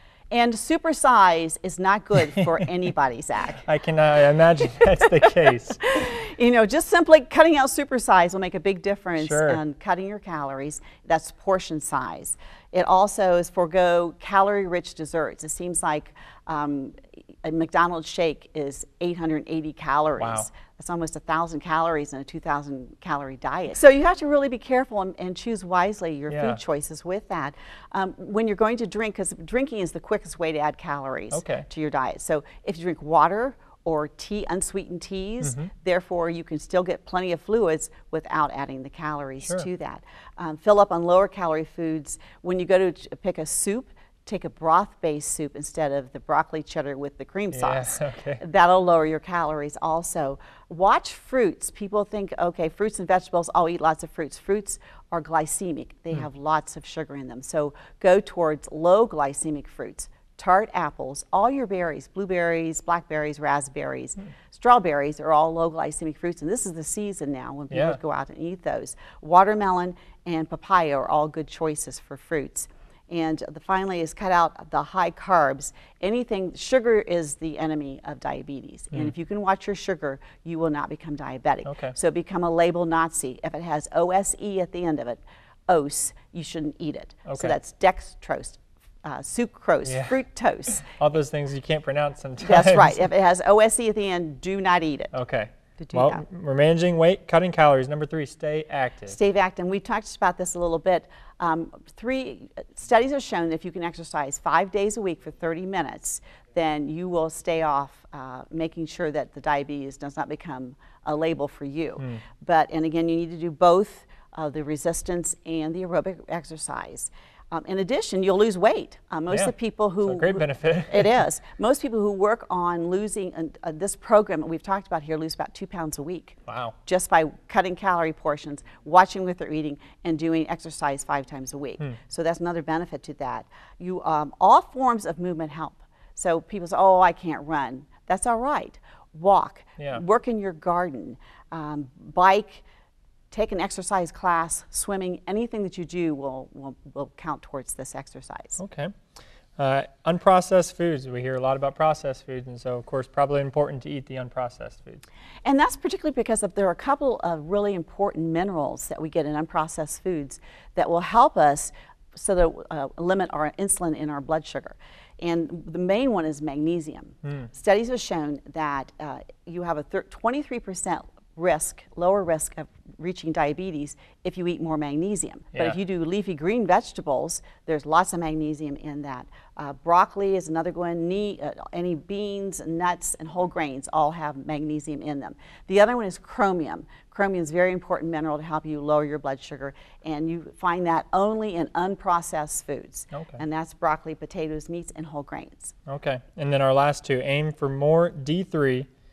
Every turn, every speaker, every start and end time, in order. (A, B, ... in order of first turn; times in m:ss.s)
0:00.3-0:03.6 A
0:03.6-0:05.8 B
0:05.8-1:30.9 A
0:09.2-0:09.6 B
0:20.2-0:20.5 B
0:26.3-0:26.6 B
0:31.3-0:31.6 B
0:35.4-0:35.7 B
0:47.5-0:48.4 B
1:07.7-1:08.0 B
1:21.6-1:21.9 B
1:27.2-1:27.6 B
1:29.8-1:30.2 B
1:30.8-1:33.1 B
1:32.4-1:35.1 A
1:35.1-1:39.2 B
1:35.8-1:36.2 A
1:39.1-2:22.6 A
1:59.3-2:01.2 B
2:06.5-2:06.7 B
2:23.3-2:28.6 A
2:28.6-2:28.9 B
2:29.6-2:35.0 B
2:35.4-3:15.7 A
2:55.5-2:55.8 B
3:13.1-3:13.4 B
3:15.9-3:18.9 B